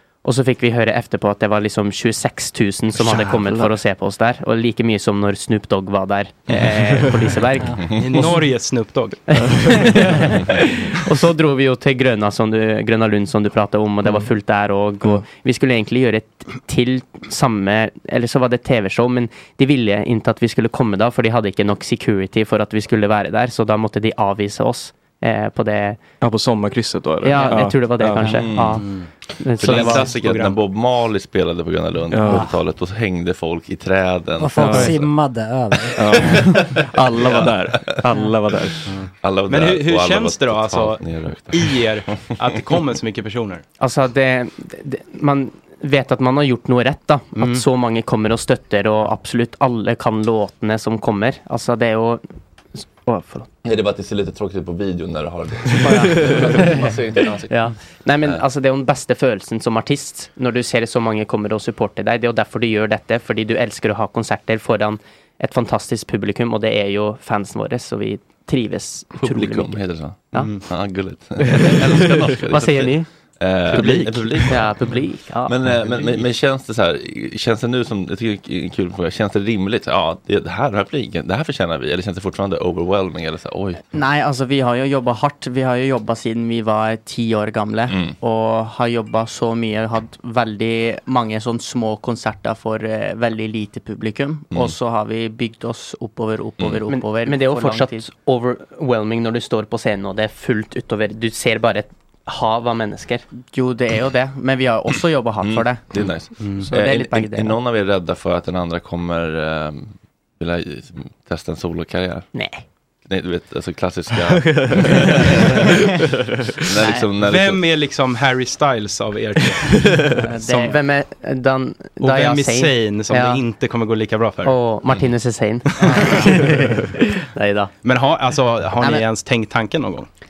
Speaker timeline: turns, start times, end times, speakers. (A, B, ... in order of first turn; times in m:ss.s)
0:00.2-0:08.2 A
0:03.0-0:03.8 B
0:06.5-0:06.9 C
0:06.9-0:07.2 B
0:07.7-0:08.3 C
0:08.0-0:10.1 D
0:09.4-0:26.0 A
0:26.2-0:28.4 B
0:27.2-0:30.0 A
0:28.1-0:35.1 C
0:28.8-0:30.6 D
0:32.1-0:32.5 B
0:34.4-0:36.7 E
0:34.5-0:35.0 B
0:36.0-0:38.8 B
0:36.0-0:38.0 C
0:38.8-0:43.6 D
0:39.2-0:41.9 C
0:43.8-0:52.2 A
0:47.4-0:47.6 D
0:52.8-0:53.5 A
0:53.6-0:57.6 C
0:55.8-0:56.8 A
0:57.5-1:09.8 A
1:09.2-1:23.8 C
1:10.3-1:10.6 D
1:11.9-1:12.2 B
1:12.5-1:13.1 A
1:13.7-1:14.2 D
1:13.7-1:14.3 B
1:14.5-1:15.5 A
1:23.9-1:38.0 F
1:27.9-1:28.2 C
1:36.8-1:43.2 A
1:43.4-1:45.8 F
1:45.4-1:52.4 C
1:46.4-1:46.7 D
1:46.8-1:47.4 F
1:52.3-1:52.6 A
1:53.0-1:55.7 C
1:54.5-1:54.8 B
1:56.6-1:57.6 C
1:57.2-2:00.7 D
2:00.3-2:00.7 F
2:00.4-2:03.4 A
2:02.0-2:04.6 D
2:04.4-2:07.7 A
2:04.9-2:05.1 C
2:05.8-2:06.4 F
2:05.8-2:06.3 D
2:07.8-2:10.1 D